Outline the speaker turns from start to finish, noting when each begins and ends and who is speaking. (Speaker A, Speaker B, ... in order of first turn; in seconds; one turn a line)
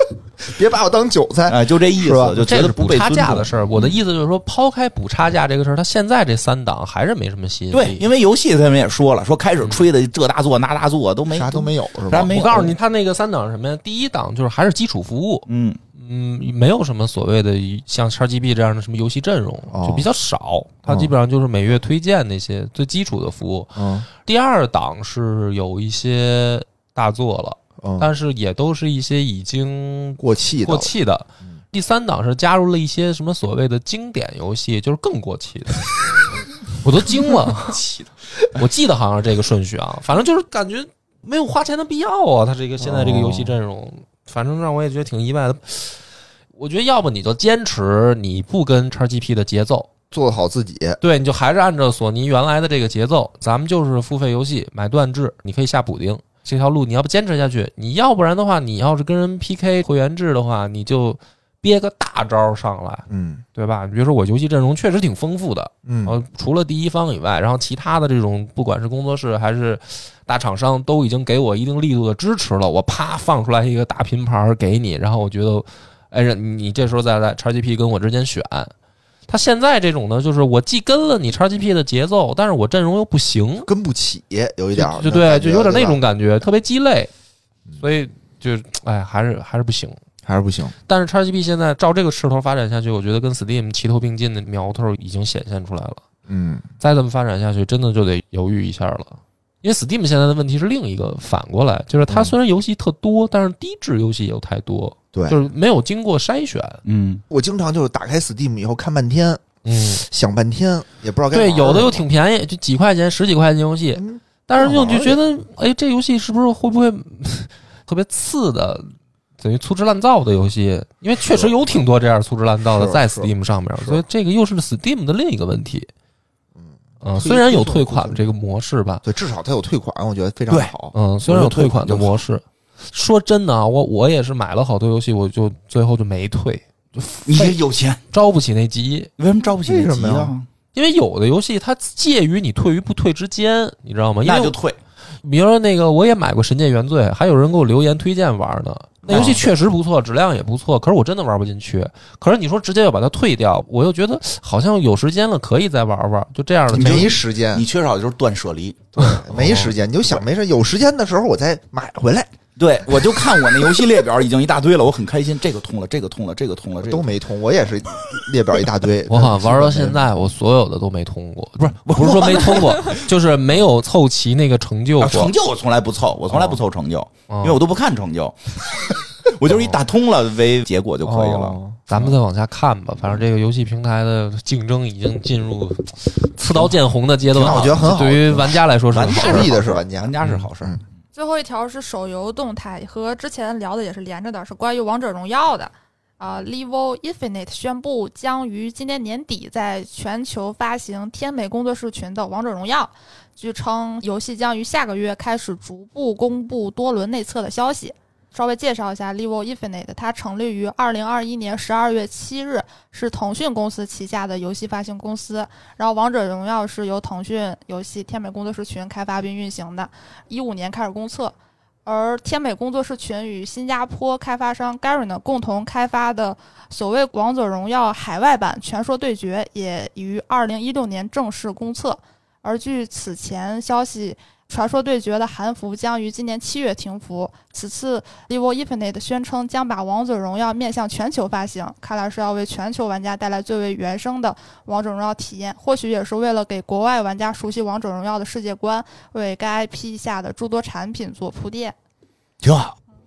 Speaker A: 0.5-2.4
Speaker B: 1.5-4.0
Speaker C: 2.4-8.0
Speaker B: 7.7-12.8
Speaker A: 11.3-12.5
Speaker C: 12.2-36.2
Speaker B: 15.5-15.8
Speaker A: 19.7-20.1
Speaker A: 20.9-21.1
Speaker A: 23.8-24.1
Speaker A: 27.8-28.1
Speaker A: 30.2-30.9
Speaker C: 36.8-37.8
Speaker B: 37.7-38.1
Speaker C: 38.5-46.0
Speaker A: 42.8-43.5
Speaker C: 46.5-49.9
Speaker A: 50.1-51.0
Speaker C: 51.0-78.7
Speaker A: 63.1-63.4
Speaker A: 65.8-66.1
Speaker C: 79.3-83.7
Speaker A: 83.7-86.0
Speaker C: 84.7-87.1
Speaker C: 87.8-90.0
Speaker A: 90.3-90.7
Speaker C: 90.9-96.0
Speaker A: 96.3-96.7
Speaker C: 96.8-106.8
Speaker A: 102.1-102.3
Speaker B: 106.8-107.2
Speaker A: 107.3-112.0
Speaker C: 109.7-110.0
Speaker C: 111.3-125.9
Speaker A: 114.0-115.2
Speaker A: 122.7-124.0
Speaker A: 126.6-128.3
Speaker C: 127.0-129.0
Speaker A: 129.0-130.9
Speaker C: 130.9-137.6
Speaker B: 131.3-132.2
Speaker B: 137.3-138.0
Speaker C: 138.1-139.1
Speaker B: 139.2-140.5
Speaker A: 139.6-140.3
Speaker C: 140.7-144.6
Speaker B: 144.2-144.8
Speaker C: 145.2-157.2
Speaker B: 149.1-149.4
Speaker A: 149.1-149.4
Speaker A: 156.7-157.7
Speaker B: 156.7-159.0
Speaker A: 159.0-162.3
Speaker C: 159.3-159.7
Speaker B: 162.6-167.1
Speaker A: 166.8-170.1
Speaker C: 169.1-175.3
Speaker B: 171.9-173.0
Speaker B: 175.0-182.1
Speaker C: 177.3-177.6
Speaker A: 181.0-181.8
Speaker C: 181.9-189.6
Speaker B: 187.3-187.9
Speaker A: 187.3-190.8
Speaker B: 188.9-190.8
Speaker D: 191.2-251.8
Speaker B: 252.4-252.8